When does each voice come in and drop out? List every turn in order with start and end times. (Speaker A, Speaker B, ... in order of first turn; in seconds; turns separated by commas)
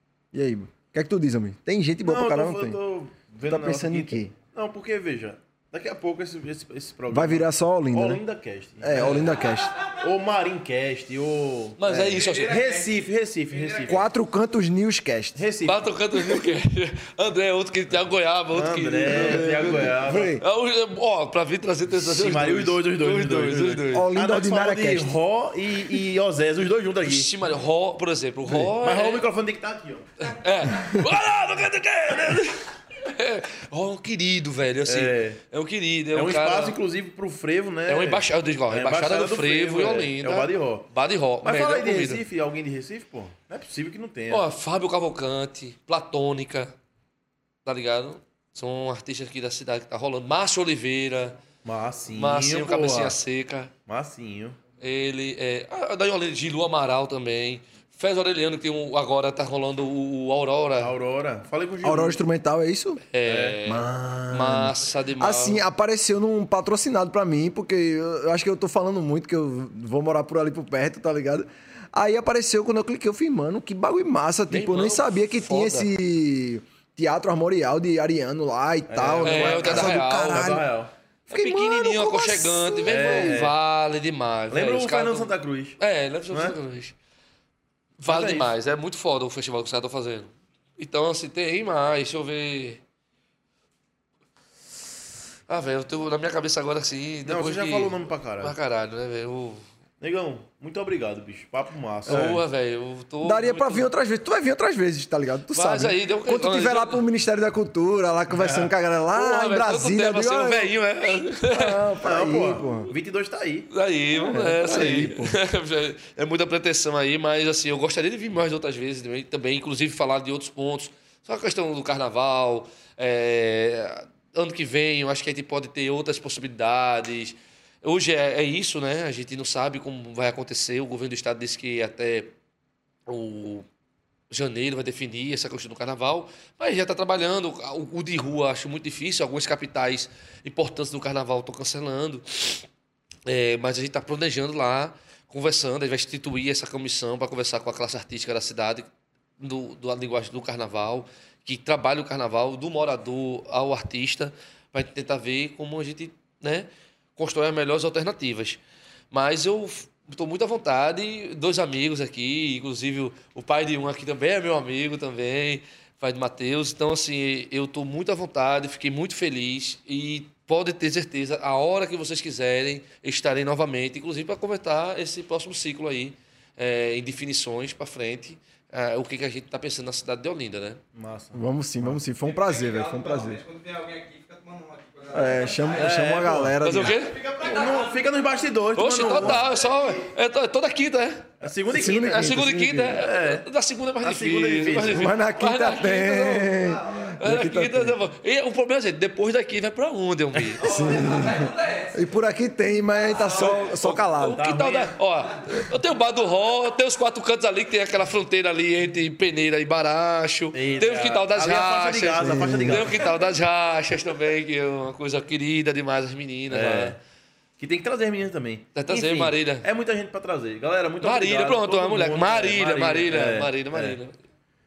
Speaker A: 0.3-2.8, Speaker B: 2.0-14.1, Speaker A: 3.5-4.3, Speaker A: 7.1-8.2, Speaker A: 8.8-9.8, Speaker C: 9.0-9.3, Speaker C: 11.8-12.6, Speaker D: 12.2-12.9, Speaker D: 13.5-13.9, Speaker A: 13.9-15.4, Speaker B: 15.3-15.9, Speaker C: 15.7-24.1, Speaker B: 18.5-20.3, Speaker A: 19.9-20.4, Speaker B: 21.9-27.3, Speaker A: 23.9-25.2, Speaker C: 27.0-29.2, Speaker B: 28.5-30.1, Speaker C: 30.2-36.8, Speaker B: 34.9-35.4, Speaker B: 36.1-40.9, Speaker C: 37.9-42.2, Speaker B: 41.4-44.4, Speaker C: 44.3-46.8, Speaker C: 47.6-51.4, Speaker B: 51.6-53.2, Speaker C: 52.1-53.7, Speaker B: 53.9-54.6, Speaker C: 54.8-60.9, Speaker B: 60.8-62.2, Speaker A: 61.8-63.0, Speaker C: 63.1-65.6, Speaker B: 63.2-64.2, Speaker A: 63.7-80.7, Speaker C: 74.5-75.9, Speaker B: 78.9-80.9, Speaker C: 79.2-80.6, Speaker C: 81.3-86.9, Speaker A: 81.3-83.4, Speaker B: 82.9-83.6, Speaker B: 84.5-85.8, Speaker B: 86.3-86.6, Speaker C: 88.0-92.8, Speaker B: 88.1-88.5, Speaker C: 95.5-99.7, Speaker B: 97.2-98.6, Speaker B: 100.0-102.4, Speaker C: 102.1-103.9, Speaker A: 102.1-102.4, Speaker A: 103.2-112.9, Speaker C: 105.5-107.0, Speaker B: 108.3-108.7, Speaker C: 109.1-111.9, Speaker B: 112.0-113.7, Speaker C: 113.7-132.3, Speaker A: 114.1-115.4, Speaker B: 114.7-115.0, Speaker C: 133.1-133.7, Speaker C: 134.3-142.7, Speaker C: 143.3-158.6, Speaker C: 159.1-180.8, Speaker B: 180.9-182.0, Speaker A: 181.3-183.4, Speaker D: 182.2-186.2, Speaker A: 185.1-187.0, Speaker B: 185.7-186.6, Speaker C: 186.6-187.2, Speaker D: 187.0-188.3, Speaker B: 187.3-189.5, Speaker C: 188.8-200.8, Speaker B: 191.4-193.5, Speaker A: 191.7-193.0, Speaker B: 194.0-195.2, Speaker A: 194.9-198.0, Speaker D: 200.6-202.1, Speaker A: 200.6-204.4, Speaker C: 203.2-217.0, Speaker B: 204.3-204.9, Speaker B: 210.5-213.3, Speaker A: 212.2-212.9, Speaker B: 216.5-217.0, Speaker B: 217.6-224.0, Speaker C: 218.8-219.7, Speaker C: 221.0-224.2